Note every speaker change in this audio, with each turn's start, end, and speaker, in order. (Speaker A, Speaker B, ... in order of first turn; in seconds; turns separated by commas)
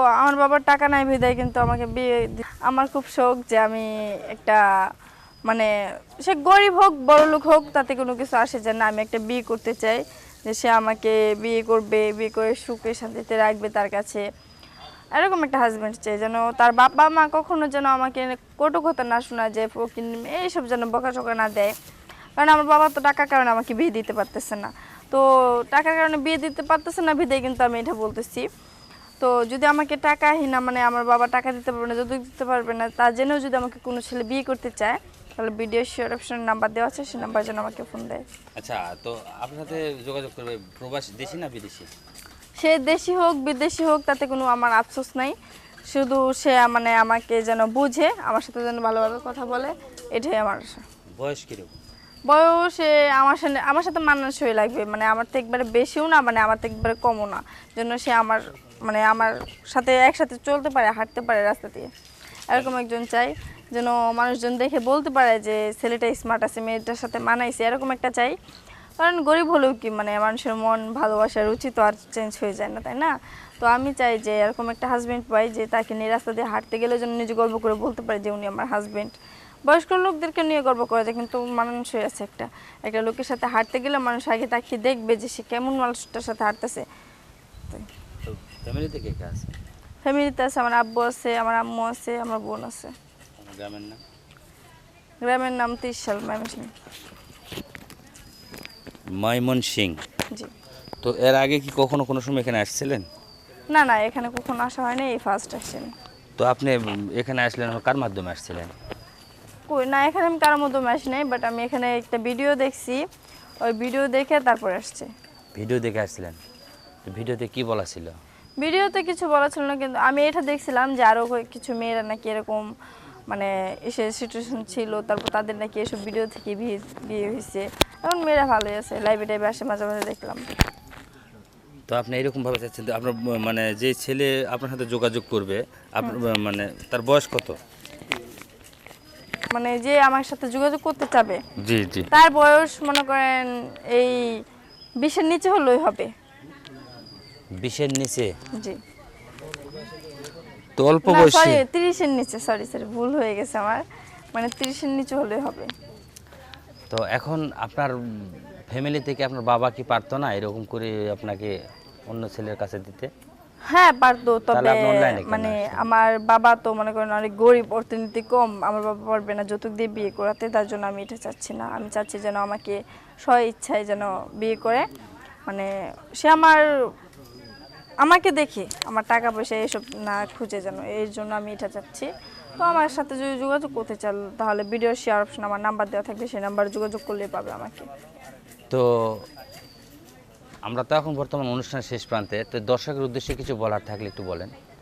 Speaker A: 0.2-4.6, Speaker A: 6.2-14.2, Speaker A: 15.1-21.7, Speaker A: 22.4-28.5, Speaker A: 29.2-38.2, Speaker B: 38.5-41.9, Speaker A: 42.6-45.4, Speaker A: 45.9-50.8, Speaker B: 51.1-51.8, Speaker A: 52.3-61.9, Speaker A: 62.5-68.3, Speaker A: 69.0-79.1, Speaker A: 79.7-86.8, Speaker B: 88.2-89.5, Speaker A: 90.0-92.9, Speaker B: 93.4-94.0, Speaker A: 95.2-96.7, Speaker B: 99.2-100.0, Speaker B: 101.0-103.0, Speaker A: 103.7-105.9, Speaker B: 106.4-108.7, Speaker A: 109.7-113.0, Speaker A: 113.6-115.1, Speaker B: 115.5-116.4, Speaker B: 117.1-118.1, Speaker A: 118.6-122.7, Speaker A: 123.3-130.4, Speaker B: 131.9-137.6, Speaker A: 139.5-141.4, Speaker B: 141.6-142.1, Speaker A: 142.1-144.4, Speaker A: 145.0-146.1, Speaker B: 147.6-148.3, Speaker B: 150.8-151.6, Speaker A: 151.0-155.7, Speaker B: 156.9-161.5, Speaker B: 162.1-163.1, Speaker A: 163.7-174.8, Speaker B: 164.5-165.8, Speaker A: 175.5-176.7, Speaker A: 178.0-187.9, Speaker B: 188.7-189.2, Speaker B: 190.6-194.5